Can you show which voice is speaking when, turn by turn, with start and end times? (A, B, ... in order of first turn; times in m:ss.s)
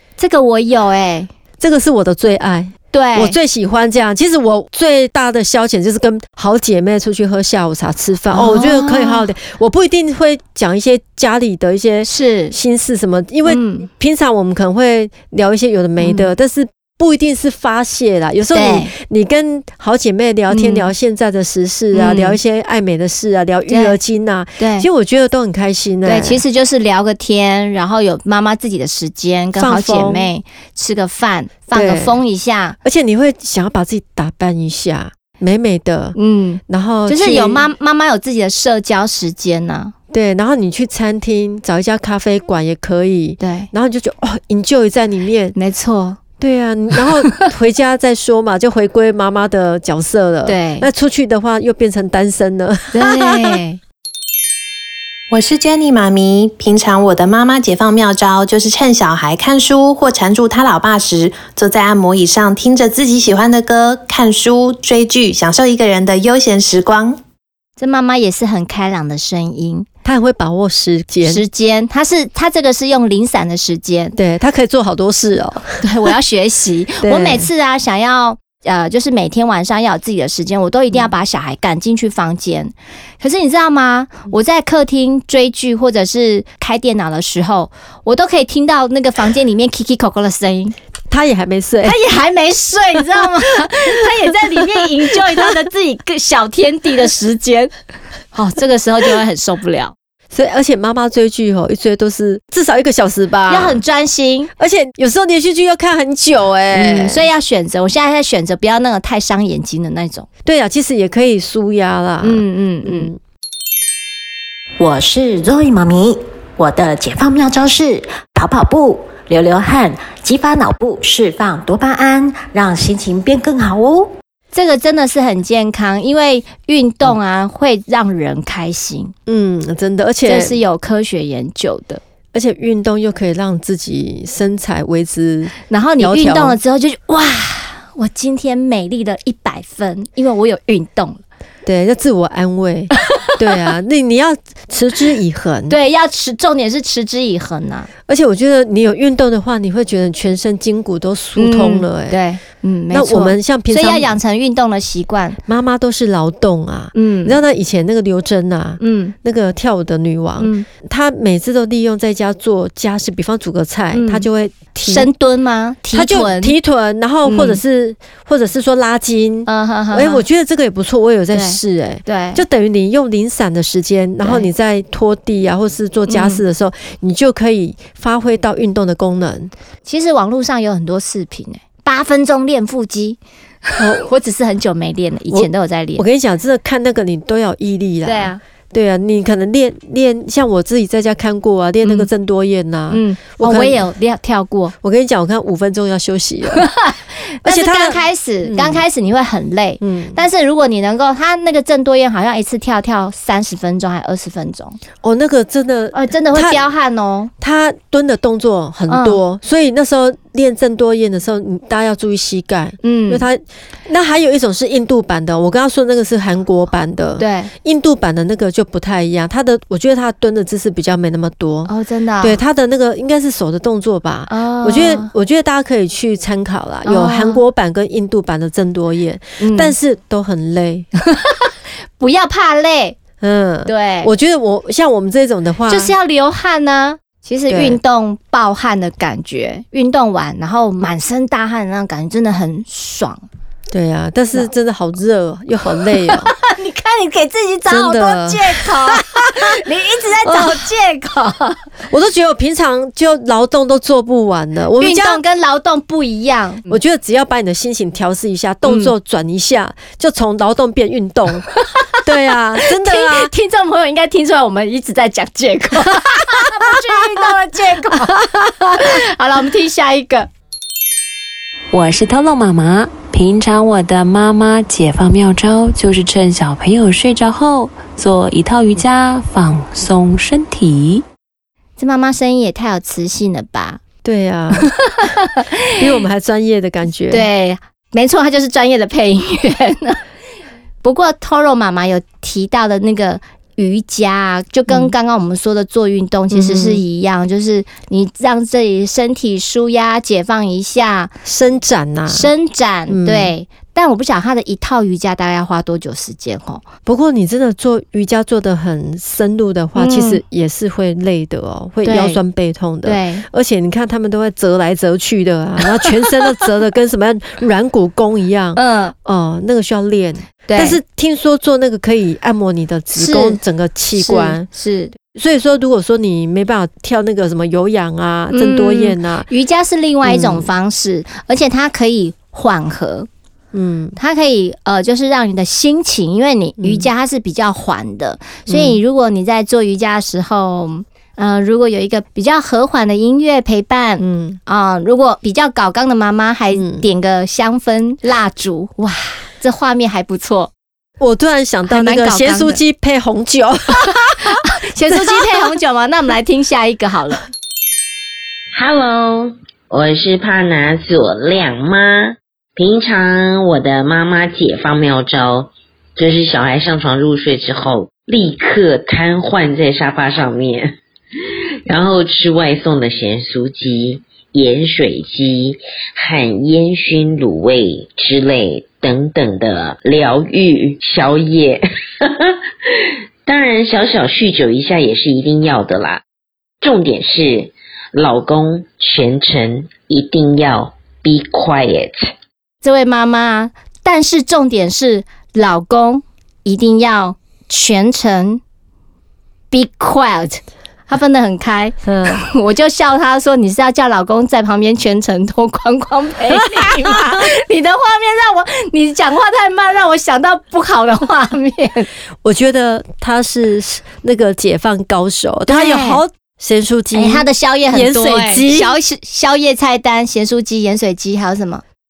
0:00.2-0:01.3 A
0:01.6-0:26.4 B
0:02.9-0:03.4 A
0:08.3-0:09.2 A
0:12.0-0:12.5 A
0:13.5-0:13.9 A
0:16.0-0:16.3 A
0:18.5-0:18.9 A
0:20.5-0:20.9 A
0:21.9-0:22.4 A
0:23.7-0:24.0 A
0:24.6-0:24.9 A
0:26.1-0:32.8 A
0:29.6-0:30.3 B
0:31.7-0:32.2 B
0:32.8-0:36.2 B
0:36.2-0:39.9 A
0:36.7-0:37.7 B
0:40.1-0:45.6 B
0:43.4-0:43.7 A
0:45.6-0:46.2 A
0:46.4-0:53.6 B
0:50.5-0:50.9 A
0:52.9-0:53.8 A
0:55.3-1:07.2 C
1:07.8-1:09.9 A
1:10.0-1:11.4 B
1:11.2-1:14.2 A
1:14.2-1:15.8 B
1:15.8-1:30.8 A
1:17.0-1:17.5 B
1:31.1-1:32.0 B
1:31.8-1:37.7 A
1:38.3-1:39.9 A
1:40.3-1:43.8 B
1:43.5-1:44.5 A
1:44.6-1:47.2 B
1:46.7-1:50.3 A
1:50.4-1:53.2 B
1:52.2-1:53.1 A
1:54.8-2:04.1 D
2:04.5-2:09.1 A
2:09.3-2:10.6 B
2:10.2-2:12.0 A
2:12.3-2:16.6 B
2:15.7-2:21.2 A
2:21.6-2:25.8 B
2:25.7-2:27.9 A
2:28.1-2:32.2 B
2:31.4-2:35.4 A
2:32.9-2:34.1 B
2:35.5-2:45.1 B
2:37.0-2:37.4 A
2:38.8-2:39.2 A
2:40.4-2:40.7 A
2:43.9-2:46.6 A
2:45.9-2:59.5 B
2:47.2-2:47.6 A
2:49.5-2:50.2 A
2:51.3-2:52.4 A
2:54.2-2:54.5 A
2:56.1-2:56.4 A
2:59.9-3:03.2 A
3:03.7-3:06.0 A
3:03.8-3:04.1 B
3:05.3-3:13.8 B
3:08.0-3:08.4 A
3:11.8-3:12.1 A
3:12.9-3:14.7 A
3:14.8-3:16.6 B
3:16.5-3:24.8 A
3:17.4-3:18.8 B
3:19.8-3:20.2 B
3:25.0-3:26.7 B
3:25.9-3:27.3 A
3:27.4-3:41.7 B
3:28.9-3:29.2 A
3:32.8-3:33.2 A
3:37.2-3:37.5 A
3:41.7-3:42.4 A
3:42.2-3:50.9 B
3:44.3-3:45.1 A
3:46.8-3:47.4 A
3:49.4-3:49.8 A
3:51.1-3:53.0 A
3:53.2-3:55.9 B
3:53.7-3:54.1 A
3:55.7-4:03.2 A
3:57.5-3:57.8 B
4:03.7-4:06.3 B
4:05.9-4:11.6 A
4:07.7-4:09.0 B
4:10.3-4:10.6 B
4:11.9-4:15.2 B
4:14.8-4:16.8 A
4:16.7-4:21.5 B
4:18.6-4:18.9 A
4:22.0-4:23.3 B
4:22.6-4:30.3 A
4:31.7-4:41.0 E
4:41.8-4:43.8 A
4:44.0-4:45.0 B
4:45.4-4:45.8 A
4:45.8-4:47.3 B
4:47.1-4:50.0 A
4:50.8-5:01.1 A
4:56.3-4:56.8 B
5:01.2-5:02.3 B
5:02.1-5:06.6 A
5:02.9-5:03.3 B
5:06.9-5:24.5 B
5:09.8-5:10.2 A
5:11.8-5:12.2 A
5:12.8-5:13.2 A
5:18.6-5:18.9 A
5:20.5-5:20.8 A
5:23.0-5:23.4 A
5:24.0-5:24.9 A
5:25.1-5:29.3 B
5:28.3-5:33.1 A
5:30.0-5:30.5 B
5:33.5-5:34.0 B
5:34.0-5:50.5 A
5:36.6-5:36.9 B
5:38.5-5:38.8 B
5:44.0-5:44.4 B
5:46.6-5:46.9 B
5:51.0-5:54.3 B
5:51.7-5:52.6 A
5:54.2-5:57.2 A
5:54.9-5:55.3 B
5:58.6-6:10.8 F
6:11.7-6:22.7 F
6:23.3-6:26.0 F
6:26.6-6:32.1 F
6:32.6-6:38.4 A
6:39.5-6:51.9 A
6:41.9-6:42.2 B
6:46.4-6:47.3 B
6:52.2-6:58.7 B
6:55.5-6:56.0 A
6:56.9-7:01.6 A